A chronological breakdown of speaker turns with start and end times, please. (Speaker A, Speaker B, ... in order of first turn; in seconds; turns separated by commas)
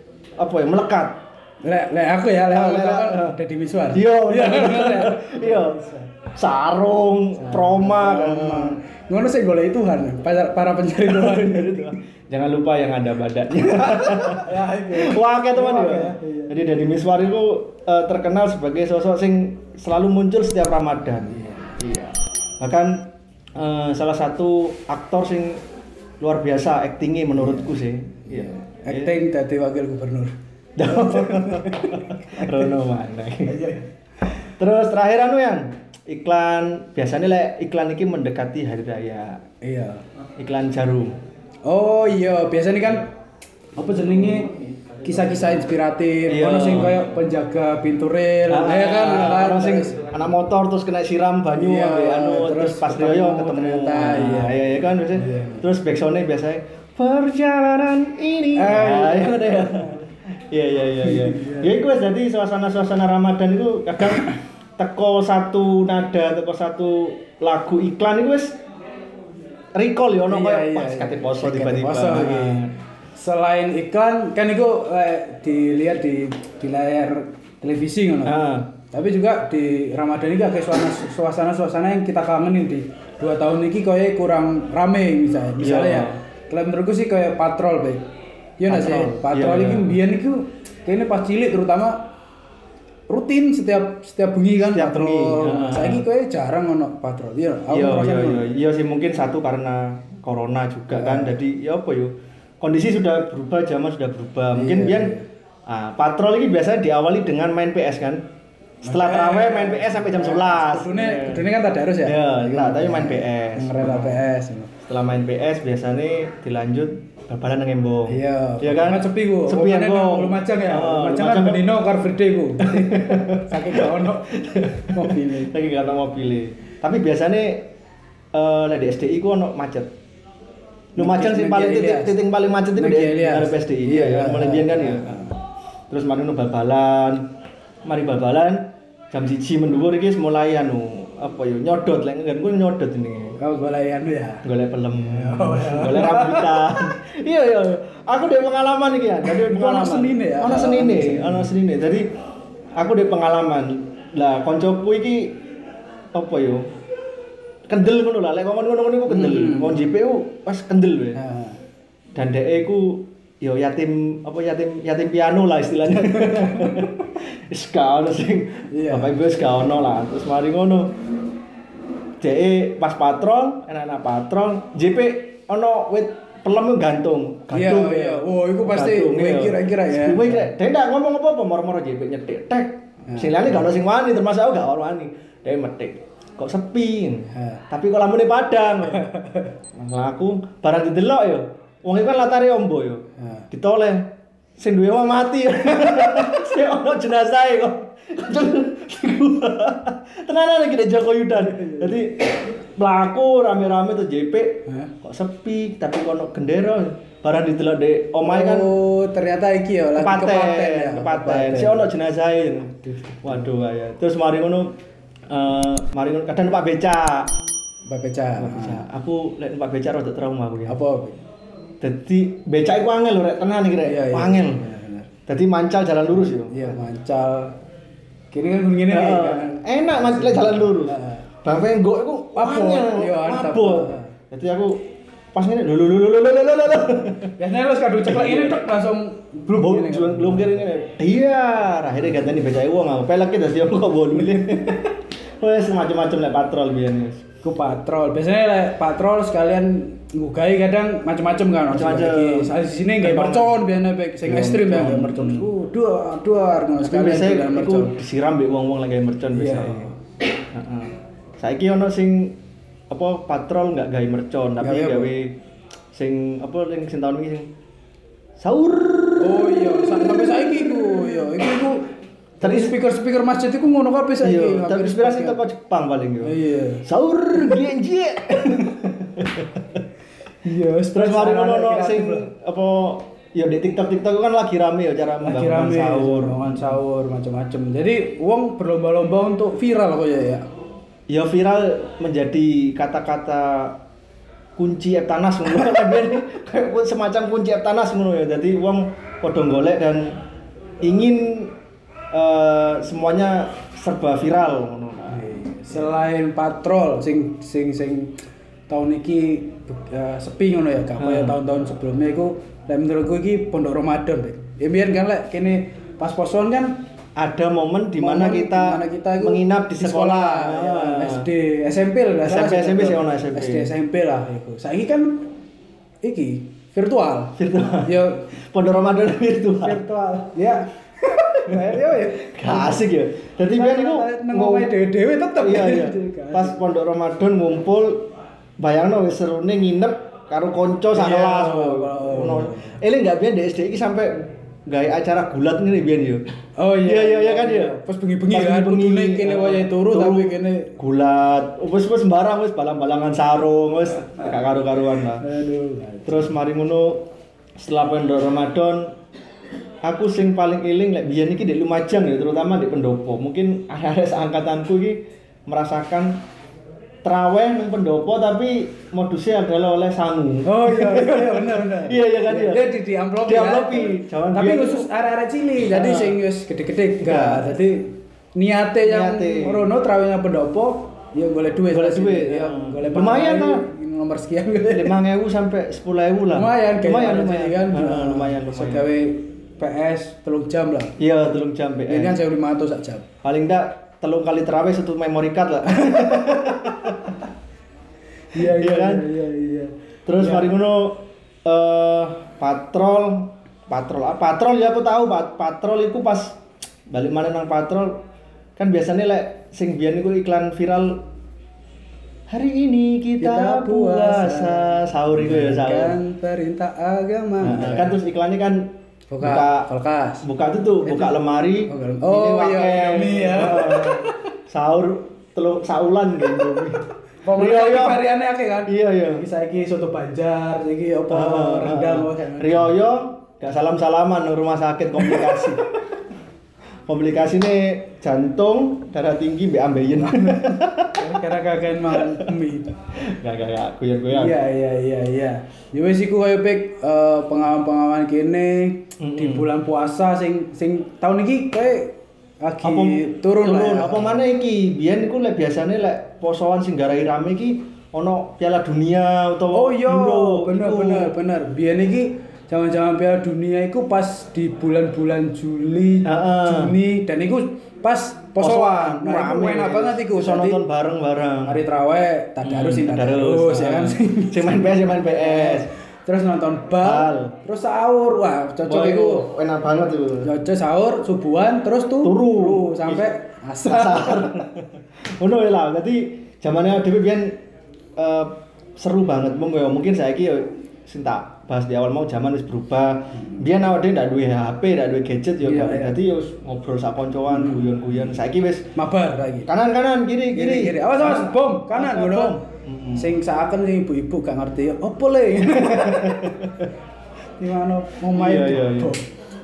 Speaker A: 0.4-1.2, Speaker B: 1.6-6.1, Speaker A: 2.5-3.4, Speaker A: 3.9-5.8, Speaker A: 6.3-8.8, Speaker B: 7.4-11.9, Speaker A: 11.0-25.6, Speaker B: 13.6-16.5, Speaker A: 26.2-29.1, Speaker B: 27.4-27.8, Speaker B: 28.3-30.3, Speaker A: 30.8-33.8, Speaker B: 30.9-32.7, Speaker B: 33.5-33.9, Speaker A: 34.4-39.4, Speaker B: 39.6-40.0, Speaker A: 40.4-41.2, Speaker B: 41.7-43.1, Speaker B: 43.8-50.0, Speaker A: 46.3-47.0, Speaker A: 48.5-68.6, Speaker B: 51.5-55.6, Speaker B: 58.6-60.0, Speaker B: 61.0-61.8, Speaker A: 69.8-72.7, Speaker B: 70.3-72.6, Speaker B: 73.2-88.0, Speaker A: 78.2-78.7, Speaker A: 85.6-86.2, Speaker B: 88.6-92.0, Speaker A: 88.7-90.0, Speaker B: 93.1-98.5, Speaker A: 94.6-96.0, Speaker A: 97.7-105.1, Speaker B: 100.9-101.3, Speaker B: 104.5-105.2, Speaker A: 105.7-108.2, Speaker B: 108.8-114.7, Speaker A: 108.8-111.5, Speaker A: 112.0-114.2, Speaker A: 114.8-121.7, Speaker B: 118.1-124.3, Speaker A: 122.6-127.6, Speaker B: 124.8-125.5, Speaker A: 128.3-129.9, Speaker A: 130.9-135.3, Speaker B: 131.0-132.2, Speaker B: 132.8-135.4, Speaker A: 135.9-137.3, Speaker A: 137.8-143.3, Speaker B: 143.4-146.7, Speaker A: 144.4-152.1, Speaker B: 149.2-151.5, Speaker A: 152.8-155.3, Speaker A: 156.2-156.6, Speaker A: 157.7-161.2, Speaker B: 159.1-159.8, Speaker B: 161.2-161.6, Speaker A: 162.2-170.9, Speaker B: 166.2-166.9, Speaker B: 168.7-169.2, Speaker A: 172.2-189.1, Speaker B: 177.5-180.5, Speaker B: 183.1-183.7, Speaker B: 187.3-187.6, Speaker B: 189.0-189.5, Speaker A: 189.8-208.7, Speaker B: 193.2-193.5, Speaker B: 201.4-202.0, Speaker B: 208.2-211.9, Speaker A: 210.0-214.7, Speaker B: 212.8-213.5, Speaker A: 215.3-217.3, Speaker B: 217.9-218.8, Speaker A: 218.4-220.8, Speaker B: 220.7-221.2, Speaker A: 221.8-224.6, Speaker B: 223.8-225.1, Speaker A: 225.3-226.8, Speaker B: 226.2-227.6, Speaker B: 228.3-231.2, Speaker A: 228.9-234.8, Speaker B: 232.3-234.1, Speaker A: 235.3-237.4, Speaker B: 237.4-240.6, Speaker A: 238.0-238.7, Speaker A: 239.6-247.2, Speaker B: 244.2-244.7, Speaker B: 247.4-258.0, Speaker A: 251.7-253.6, Speaker A: 254.3-255.5, Speaker A: 256.8-259.9, Speaker B: 259.3-259.9, Speaker A: 260.4-262.4, Speaker A: 262.9-265.4, Speaker B: 264.6-265.1, Speaker A: 265.9-267.5, Speaker A: 268.4-271.2, Speaker B: 269.2-275.4, Speaker A: 272.4-272.8, Speaker A: 274.2-279.8, Speaker B: 276.2-276.8, Speaker B: 280.4-282.3, Speaker A: 280.9-286.8, Speaker B: 285.2-290.5, Speaker A: 291.1-293.8, Speaker A: 294.6-300.1, Speaker A: 300.8-301.5, Speaker A: 302.1-305.9, Speaker B: 305.1-316.8, Speaker A: 311.0-311.4, Speaker A: 317.2-321.3, Speaker B: 318.0-325.3, Speaker A: 322.3-323.7, Speaker B: 326.0-328.3, Speaker A: 327.4-329.8, Speaker B: 329.6-332.8, Speaker A: 331.5-334.7, Speaker B: 333.5-336.6, Speaker A: 335.4-338.1, Speaker A: 338.6-346.2, Speaker B: 340.9-342.8, Speaker B: 346.6-350.7, Speaker A: 346.8-347.7, Speaker A: 348.3-355.2, Speaker B: 355.2-356.4, Speaker A: 356.1-357.0, Speaker A: 357.6-358.9, Speaker A: 359.8-366.2, Speaker A: 367.0-372.7, Speaker B: 370.5-385.0, Speaker A: 373.2-374.9, Speaker A: 375.6-376.2, Speaker A: 377.0-377.6, Speaker A: 378.9-379.7, Speaker A: 381.7-383.6, Speaker A: 384.6-388.9, Speaker B: 386.3-391.0, Speaker A: 391.0-392.2, Speaker B: 391.9-393.1, Speaker A: 393.2-397.2, Speaker B: 395.8-396.6, Speaker B: 398.3-400.6, Speaker A: 398.4-399.1, Speaker A: 400.1-406.4, Speaker A: 406.9-408.0, Speaker A: 408.6-411.0, Speaker A: 412.3-416.0, Speaker B: 413.2-418.0, Speaker A: 417.4-419.7, Speaker B: 419.1-420.2, Speaker A: 420.2-428.0, Speaker B: 420.8-421.2, Speaker B: 421.7-424.1, Speaker B: 427.2-432.7, Speaker A: 428.7-429.2, Speaker A: 431.1-435.7, Speaker B: 435.0-435.6, Speaker A: 436.9-441.1, Speaker B: 440.1-442.7, Speaker A: 441.9-442.3, Speaker A: 443.1-444.4, Speaker B: 444.1-454.2, Speaker A: 449.0-449.5, Speaker A: 452.6-461.1, Speaker B: 459.5-470.6, Speaker A: 466.1-466.7, Speaker A: 468.4-471.6, Speaker B: 471.4-479.3, Speaker A: 472.4-475.7, Speaker A: 476.8-477.4, Speaker A: 478.6-480.3, Speaker B: 480.2-484.4, Speaker A: 482.0-483.1, Speaker A: 483.6-487.4, Speaker A: 488.0-498.7, Speaker B: 495.4-495.9, Speaker B: 497.3-497.7, Speaker B: 498.8-499.5, Speaker A: 499.5-503.1, Speaker B: 500.3-502.4, Speaker B: 502.9-506.6, Speaker A: 505.6-506.7, Speaker B: 507.4-509.1, Speaker A: 508.1-508.9